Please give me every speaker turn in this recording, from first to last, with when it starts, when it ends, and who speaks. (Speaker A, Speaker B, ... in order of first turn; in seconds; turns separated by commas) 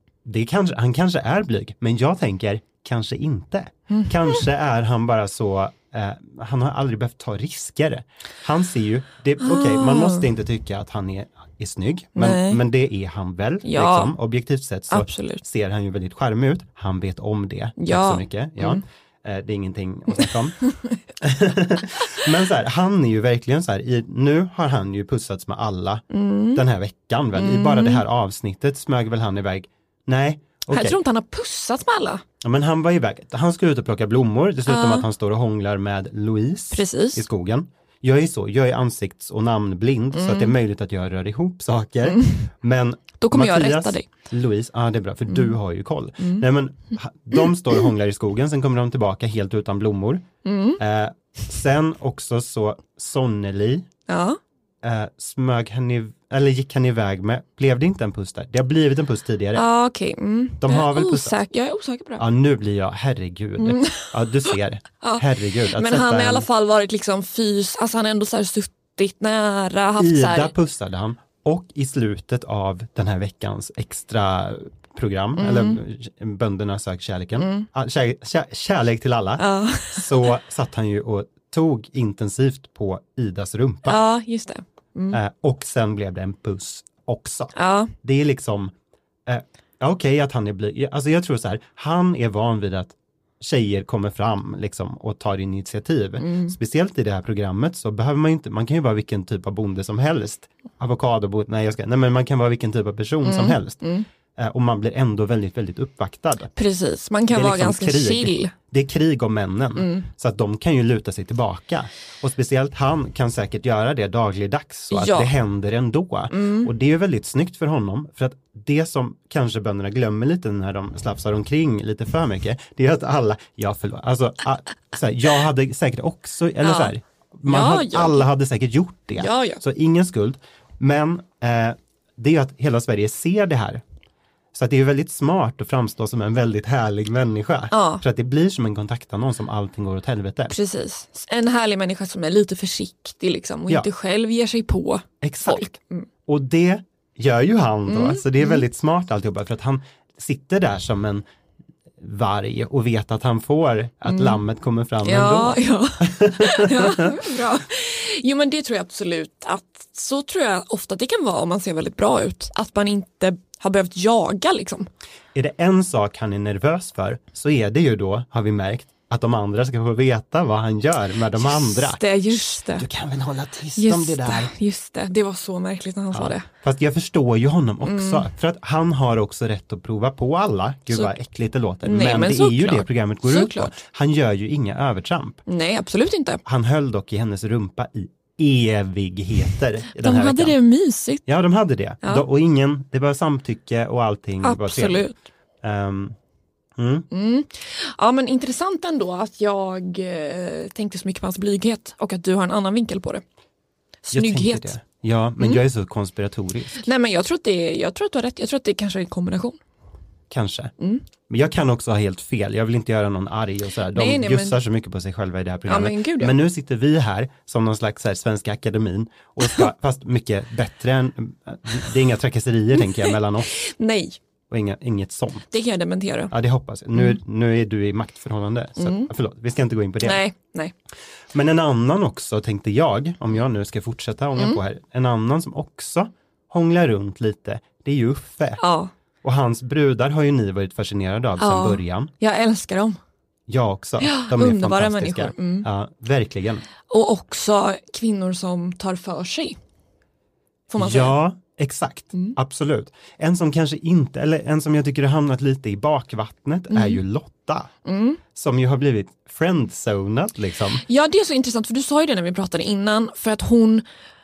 Speaker A: 0.2-20.6, Speaker B: 3.9-4.4, Speaker B: 9.4-10.2, Speaker B: 12.2-12.6, Speaker B: 13.6-14.1, Speaker B: 14.9-15.4, Speaker B: 17.8-18.8, Speaker A: 21.2-31.0, Speaker B: 26.1-26.6, Speaker B: 27.3-28.0, Speaker B: 30.7-32.2, Speaker A: 32.4-50.3, Speaker B: 34.7-35.0, Speaker B: 36.7-37.2, Speaker B: 40.1-40.5, Speaker B: 42.0-42.4, Speaker B: 43.2-44.1, Speaker B: 50.4-50.8, Speaker A: 50.8-53.9, Speaker B: 54.1-54.4, Speaker A: 54.8-59.6, Speaker B: 59.5-62.2, Speaker A: 60.6-61.4, Speaker A: 62.2-66.5, Speaker B: 63.6-64.1, Speaker B: 65.0-70.5, Speaker A: 70.0-84.0, Speaker B: 75.4-75.8, Speaker B: 77.4-77.7, Speaker B: 79.4-80.1, Speaker B: 83.8-85.2, Speaker A: 85.1-88.7, Speaker B: 87.5-87.9, Speaker A: 89.2-103.8, Speaker B: 96.2-96.5, Speaker B: 103.2-104.0, Speaker A: 104.3-106.5, Speaker B: 106.5-108.5, Speaker A: 107.3-133.8, Speaker B: 109.8-110.1, Speaker B: 114.9-115.3, Speaker B: 116.3-116.7, Speaker B: 126.6-126.9, Speaker B: 127.5-128.2, Speaker B: 129.2-129.6, Speaker A: 134.5-140.5, Speaker B: 137.7-138.0, Speaker B: 140.5-146.1, Speaker A: 145.2-145.7, Speaker A: 146.2-151.2, Speaker B: 147.9-148.6, Speaker A: 152.0-157.2, Speaker B: 154.1-154.4, Speaker B: 155.0-164.9, Speaker A: 165.3-172.0, Speaker B: 171.4-172.8, Speaker A: 172.8-174.5, Speaker B: 173.8-176.5, Speaker A: 176.1-185.4, Speaker B: 177.8-178.3, Speaker B: 181.8-183.7, Speaker B: 185.5-186.4, Speaker A: 186.4-190.6, Speaker B: 189.9-191.2, Speaker A: 191.2-195.1, Speaker B: 194.4-195.1, Speaker A: 195.6-196.2, Speaker A: 196.8-197.1, Speaker B: 197.1-203.2, Speaker B: 204.1-204.8, Speaker A: 204.1-206.9, Speaker B: 206.8-209.6, Speaker A: 210.3-210.7, Speaker A: 211.3-223.5, Speaker B: 213.9-214.6, Speaker B: 215.7-216.4, Speaker B: 222.8-224.2, Speaker A: 224.5-225.4, Speaker B: 225.5-226.3, Speaker A: 226.3-230.2, Speaker B: 228.8-229.1, Speaker B: 230.0-230.7, Speaker A: 231.3-238.6, Speaker B: 238.6-238.9, Speaker A: 239.2-242.1, Speaker B: 241.4-243.0, Speaker A: 243.5-246.6, Speaker B: 244.0-245.7, Speaker B: 246.9-249.6, Speaker B: 250.7-251.2, Speaker A: 250.8-257.7, Speaker B: 256.7-257.0, Speaker B: 257.9-258.2, Speaker A: 258.3-260.8, Speaker B: 260.9-263.8